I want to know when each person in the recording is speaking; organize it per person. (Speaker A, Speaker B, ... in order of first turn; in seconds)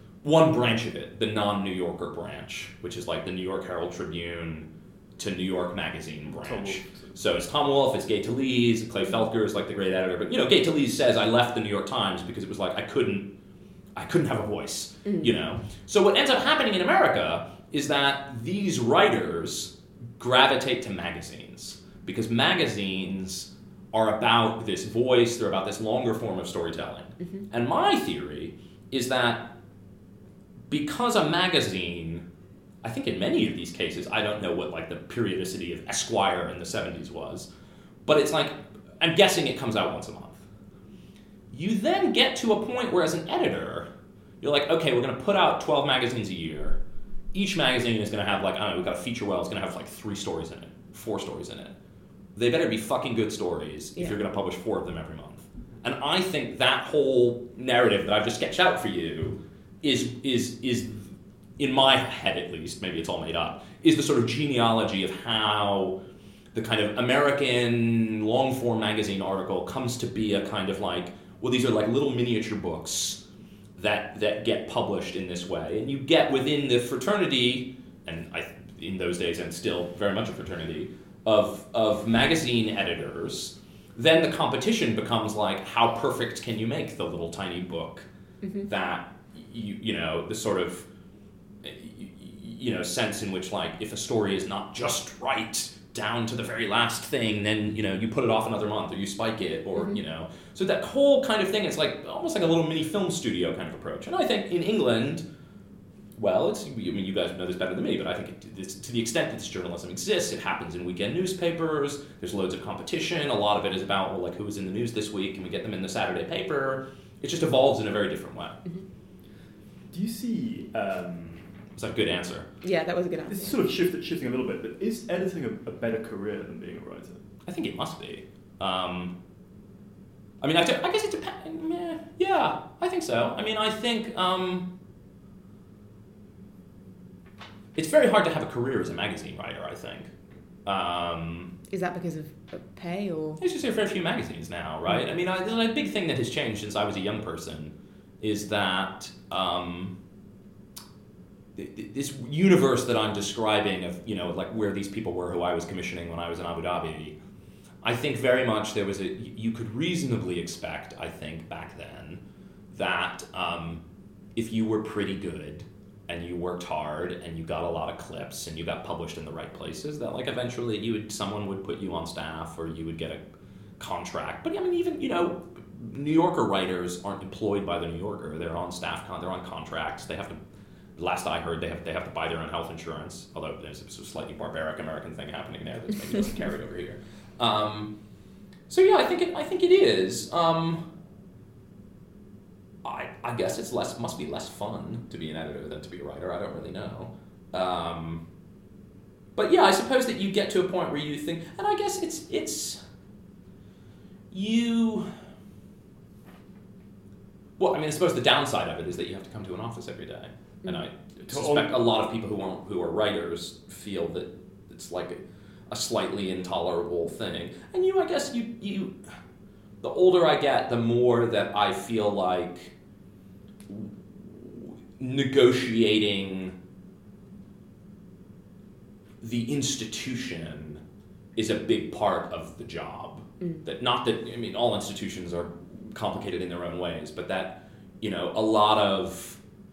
Speaker A: 0.2-13.3, 13.9-29.5, 30.7-32.2, 32.8-37.5, 38.0-40.4, 41.5-43.9, 44.4-46.8, 47.3-51.7, 52.3-66.0, 66.5-73.2, 73.8-88.1, 88.6-90.9, 91.6-105.2, 106.2-118.6, 121.8-122.5, 127.5-129.1, 130.4-134.7, 137.7-140.1, 140.6-141.5, 143.4-150.0, 151.6-157.2, 157.8-162.2, 162.7-163.8, 164.3-173.2, 173.8-180.4, 181.0-187.9, 188.7-190.8, 192.8-198.2, 199.3-202.8, 204.3-205.1, 207.6-218.9, 219.8-222.7, 223.7-226.6, 229.2-230.8, 231.3-239.4
Speaker B: 6.3-7.2, 119.9-121.5, 123.3-127.2, 211.2-211.7
Speaker C: 122.6-123.6, 141.7-143.4